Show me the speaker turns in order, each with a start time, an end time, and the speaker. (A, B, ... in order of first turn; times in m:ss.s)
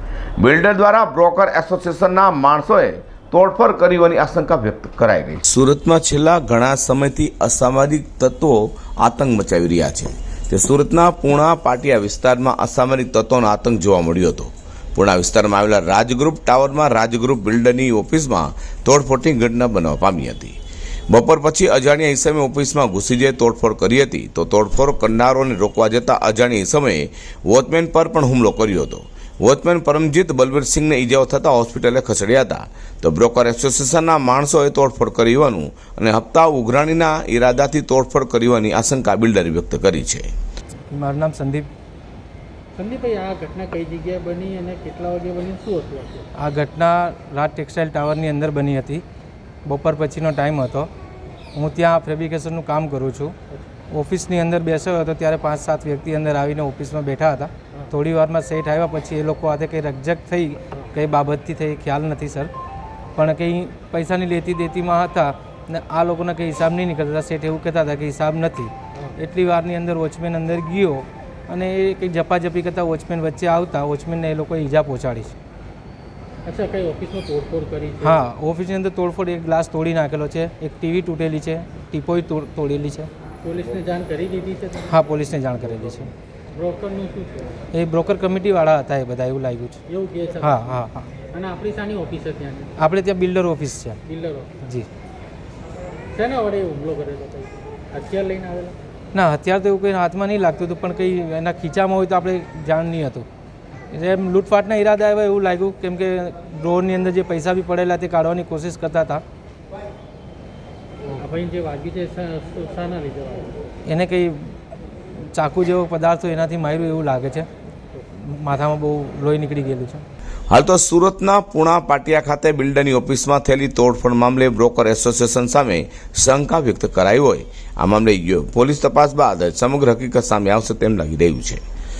0:00.4-0:20.6 A
0:21.1-0:40.3 A
0:40.9-0:41.7 B
0:42.7-0:46.3 C
0:46.4-0:49.0 B
0:49.6-0:50.9 B
0:51.5-0:53.3 B
0:53.9-1:02.5 B
1:03.2-1:15.3 B
1:16.4-1:18.3 C
1:18.0-1:23.1 B
1:23.4-1:25.0 C
1:24.9-1:26.1 B
1:26.5-1:27.6 C
1:27.7-1:29.8 B
1:29.9-1:32.8 C
1:30.4-1:31.1 B
1:32.8-1:34.0 B
1:34.0-1:34.6 C
1:34.6-1:34.9 B
1:36.1-1:38.8 C
1:39.1-1:43.2 B
1:43.9-1:49.2 B
1:51.1-1:53.7 C
1:53.8-1:54.5 B
1:55.1-1:57.5 B
1:58.1-2:00.0 B
2:00.5-2:11.6 A